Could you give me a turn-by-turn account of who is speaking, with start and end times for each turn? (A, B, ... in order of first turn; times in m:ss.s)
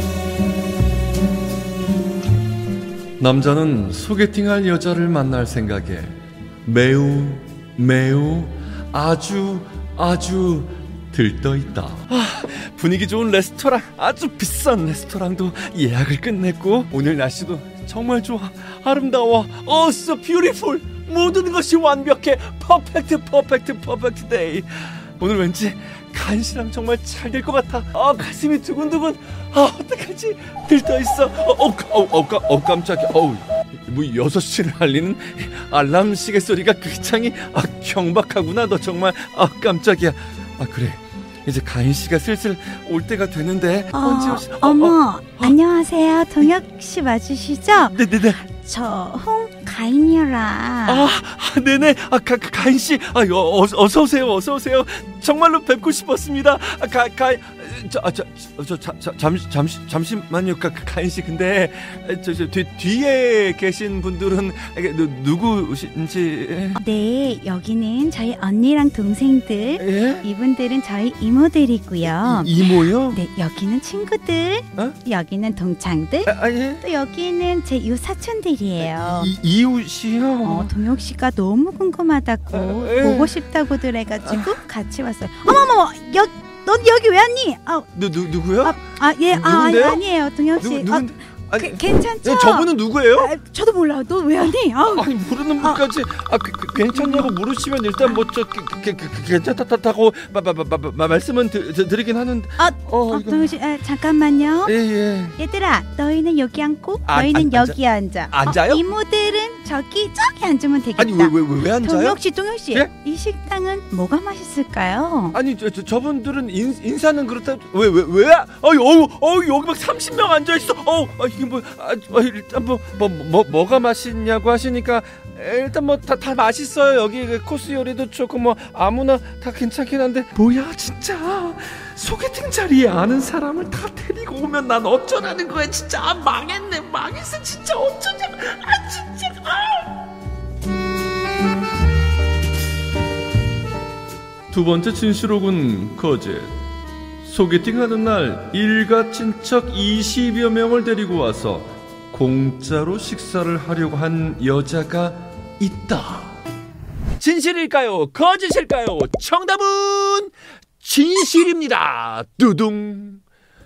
0:03.2-0:45.6 A
0:43.9-0:51.1 B
0:47.9-0:48.4 A
0:50.9-1:06.8 A
1:06.8-1:19.3 B
1:09.8-1:10.2 A
1:12.0-1:13.2 A
1:16.3-1:16.8 A
1:18.8-1:20.7 A
1:20.4-1:27.9 B
1:22.5-1:23.4 A
1:24.2-1:24.6 A
1:27.9-1:28.8 A
1:28.6-1:35.8 B
1:29.3-1:30.0 A
1:30.6-1:33.3 A
1:34.4-1:43.5 A
1:36.9-1:37.3 B
1:42.6-1:44.8 B
1:44.7-1:45.4 A
1:45.4-1:55.4 B
1:47.1-1:47.8 A
1:48.3-1:48.8 A
1:51.0-1:52.2 A
1:55.3-2:19.9 A
2:24.5-2:26.6 A
2:27.2-2:36.3 A
2:37.2-2:43.2 A